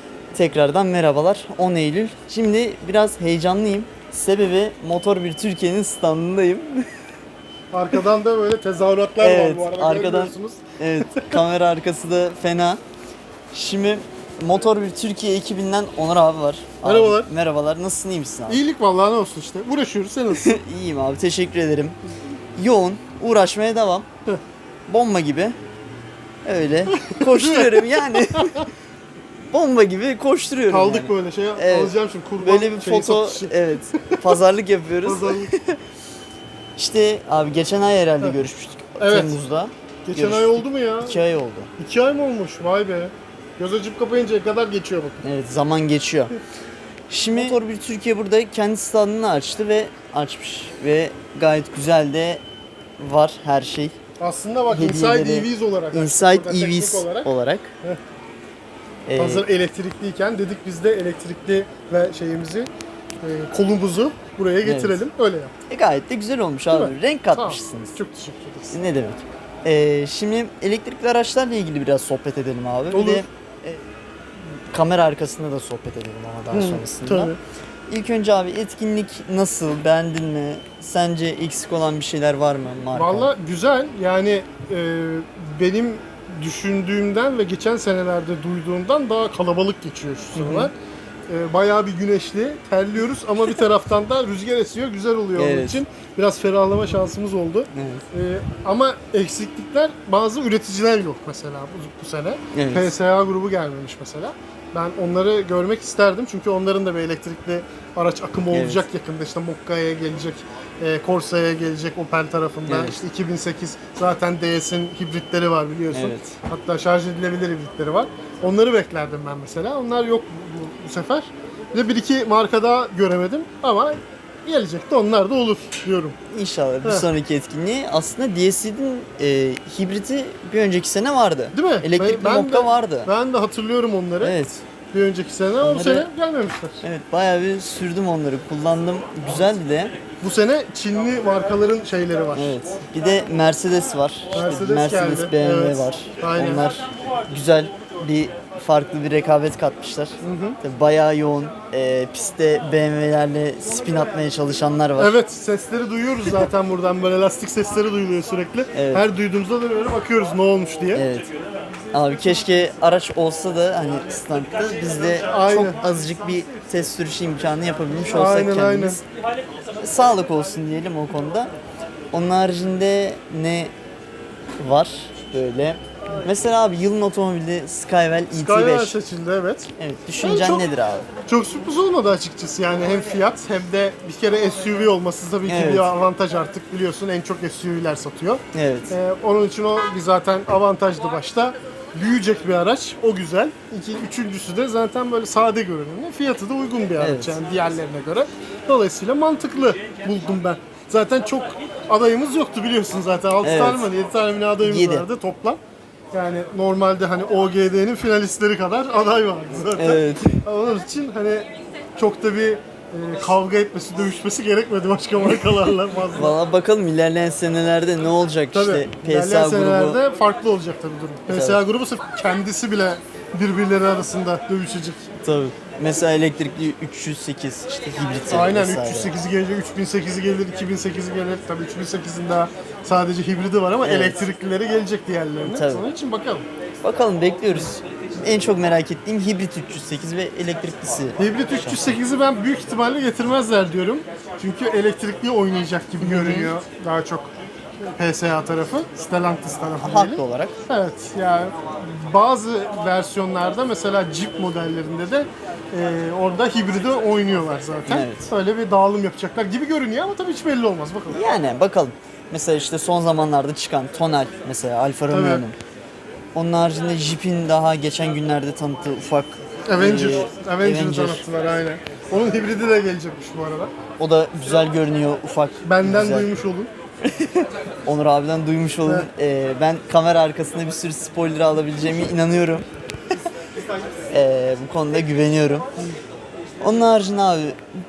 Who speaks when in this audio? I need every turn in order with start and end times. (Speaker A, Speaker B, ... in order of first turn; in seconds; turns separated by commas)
Speaker A: 0.3-6.9, Speaker B: 7.7-11.4, Speaker A: 9.2-12.8, Speaker A: 13.5-18.6, Speaker B: 16.8-17.3, Speaker B: 18.5-20.6, Speaker A: 20.4-21.9, Speaker A: 22.6-24.1, Speaker A: 24.9-25.5, Speaker A: 26.4-28.7, Speaker B: 26.9-28.7, Speaker A: 29.5-35.8, Speaker B: 30.7-34.3, Speaker B: 35.0-35.5, Speaker A: 36.8-41.7, Speaker B: 39.0-39.4, Speaker B: 40.0-41.2, Speaker B: 41.8-45.2, Speaker A: 45.2-46.3, Speaker A: 47.1-52.4, Speaker A: 53.0-54.0, Speaker B: 54.2-57.3, Speaker A: 54.7-57.7, Speaker A: 59.1-59.4, Speaker B: 59.1-62.7, Speaker B: 63.2-65.5, Speaker A: 64.6-65.0, Speaker A: 65.7-68.0, Speaker B: 66.7-68.8, Speaker A: 68.7-73.8, Speaker B: 72.9-73.2, Speaker A: 74.5-77.3, Speaker B: 76.5-77.4, Speaker A: 77.9-83.3, Speaker B: 82.9-90.7, Speaker A: 90.3-90.7, Speaker B: 91.3-126.2, Speaker A: 95.3-95.8, Speaker A: 97.7-98.0, Speaker A: 102.5-102.9, Speaker A: 108.5-108.8, Speaker A: 112.7-113.0, Speaker A: 115.9-116.3, Speaker A: 126.3-133.1, Speaker B: 131.5-134.4, Speaker A: 134.2-134.6, Speaker B: 134.9-136.8, Speaker A: 135.6-136.1, Speaker A: 136.8-139.9, Speaker B: 140.2-142.6, Speaker A: 142.3-155.1, Speaker B: 144.3-146.6, Speaker B: 150.2-150.6, Speaker B: 155.0-161.1, Speaker A: 158.7-159.1, Speaker A: 160.9-161.3, Speaker A: 161.9-169.0, Speaker B: 165.2-165.8, Speaker B: 168.1-169.0, Speaker A: 169.8-171.5, Speaker A: 172.1-173.7, Speaker A: 174.6-178.9, Speaker B: 178.3-180.7, Speaker A: 179.8-181.1, Speaker B: 181.2-205.6, Speaker A: 185.4-185.9, Speaker A: 188.5-188.9, Speaker A: 197.0-197.3, Speaker A: 203.4-203.8, Speaker A: 204.6-205.1, Speaker B: 206.1-216.3, Speaker A: 209.7-210.4, Speaker A: 216.1-220.0, Speaker B: 218.5-225.0, Speaker A: 221.3-221.6, Speaker A: 225.2-229.1, Speaker B: 228.3-236.5, Speaker A: 233.8-234.2, Speaker A: 235.4-235.8, Speaker A: 236.8-242.0, Speaker B: 241.2-247.3, Speaker A: 246.0-246.5, Speaker B: 247.8-261.2, Speaker A: 249.8-250.5, Speaker A: 257.9-258.3, Speaker A: 261.1-265.6, Speaker B: 265.1-265.4, Speaker A: 266.3-271.3, Speaker B: 269.7-273.7, Speaker A: 274.0-276.3, Speaker B: 275.6-276.7, Speaker A: 277.0-282.6, Speaker B: 278.8-279.1, Speaker A: 284.1-285.6, Speaker A: 286.6-287.6